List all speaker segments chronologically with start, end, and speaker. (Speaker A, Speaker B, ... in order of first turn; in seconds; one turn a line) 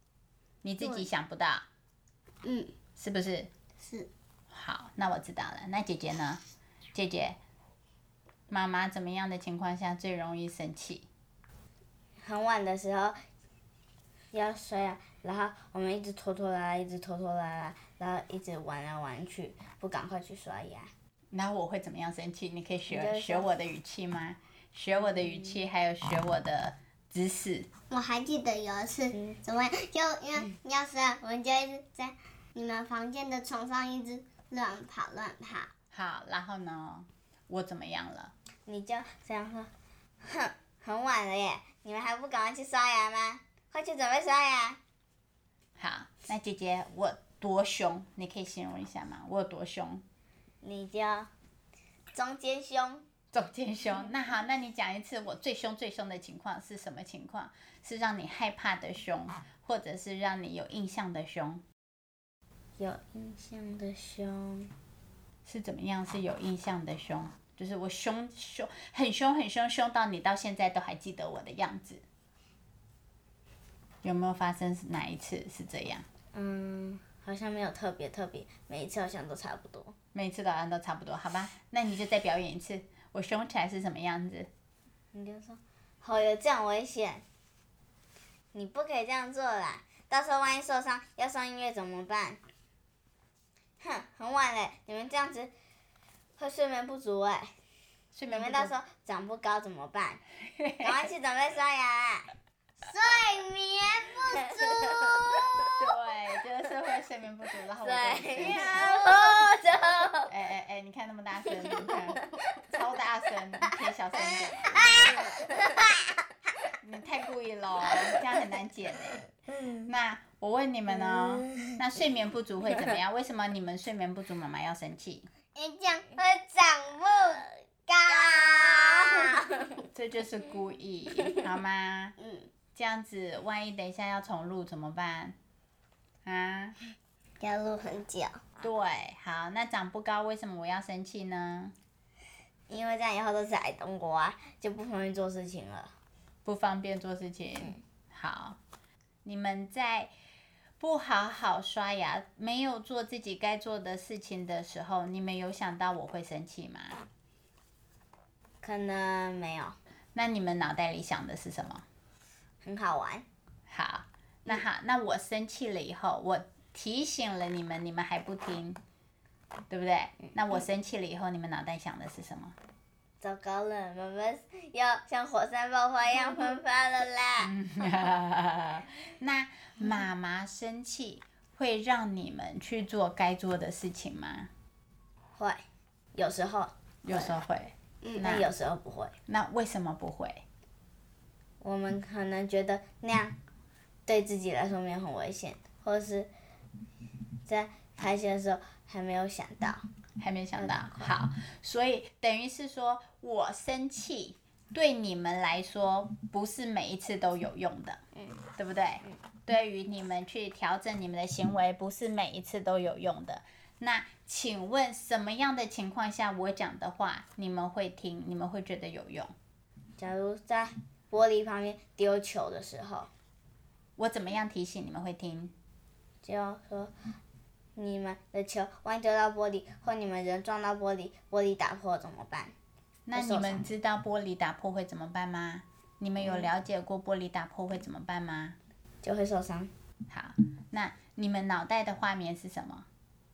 Speaker A: 0.6-1.6
Speaker B: 2.4-2.7
Speaker A: 3.0-3.5
Speaker B: 3.8-4.1
Speaker A: 4.5-6.4
Speaker A: 6.9-7.4
Speaker A: 8.5-11.1
Speaker C: 12.2-13.2
Speaker C: 14.3-20.9
Speaker A: 21.3-27.7
Speaker C: 22.9-23.5
Speaker C: 24.9-25.6
Speaker B: 27.9-35.7
Speaker A: 35.9-38.3
Speaker C: 38.7-39.7
Speaker C: 40.2-44.8
Speaker A: 45.8-50.0
Speaker C: 50.6-51.3
Speaker C: 52.1-53.0
Speaker A: 53.3-61.6
Speaker C: 62.8-64.7
Speaker A: 65.5-72.0
Speaker A: 74.0-76.0
Speaker C: 76.3-79.9
Speaker A: 80.1-84.5
Speaker C: 85.1-87.2
Speaker C: 88.5-92.4
Speaker C: 93.8-95.5
Speaker C: 96.4-97.5
Speaker A: 98.1-98.7
Speaker C: 98.3-100.2
Speaker A: 100.5-101.0
Speaker C: 100.8-102.3
Speaker B: 102.8-105.5
Speaker C: 104.7-105.7
Speaker A: 105.7-108.9
Speaker C: 107.8-110.3
Speaker A: 110.3-114.8
Speaker C: 111.7-112.0
Speaker C: 114.7-115.8
Speaker A: 116.8-125.3
Speaker C: 121.4-121.7
Speaker B: 125.5-129.4
Speaker C: 128.1-129.5
Speaker A: 129.9-132.2
Speaker B: 132.2-132.5
Speaker A: 132.7-135.3
Speaker A: 136.2-136.8
Speaker B: 137.4-138.4
Speaker A: 138.6-141.7
Speaker C: 142.7-145.9
Speaker A: 146.4-148.6
Speaker A: 149.2-150.1
Speaker A: 150.8-157.0
Speaker C: 158.6-159.8
Speaker A: 160.1-161.8
Speaker C: 162.6-163.2
Speaker A: 163.7-168.8
Speaker A: 169.7-172.5
Speaker C: 170.2-170.6
Speaker C: 173.2-177.5
Speaker A: 177.4-184.5
Speaker C: 185.3-185.6
Speaker C: 186.1-187.3
Speaker A: 187.1-188.5
Speaker B: 188.0-188.3
Speaker C: 188.2-189.1
Speaker A: 189.3-190.4
Speaker C: 191.6-193.3
Speaker C: 194.1-196.3
Speaker C: 197.4-199.8
Speaker A: 200.2-208.0
Speaker C: 200.6-201.1
Speaker C: 208.2-208.4
Speaker A: 208.6-219.3
Speaker C: 220.0-223.1
Speaker A: 224.0-225.5
Speaker C: 226.2-226.9
Speaker C: 227.8-232.5
Speaker A: 233.1-238.6
Speaker C: 233.1-233.7
Speaker C: 236.2-236.5
Speaker C: 239.0-239.7
Speaker A: 240.1-242.8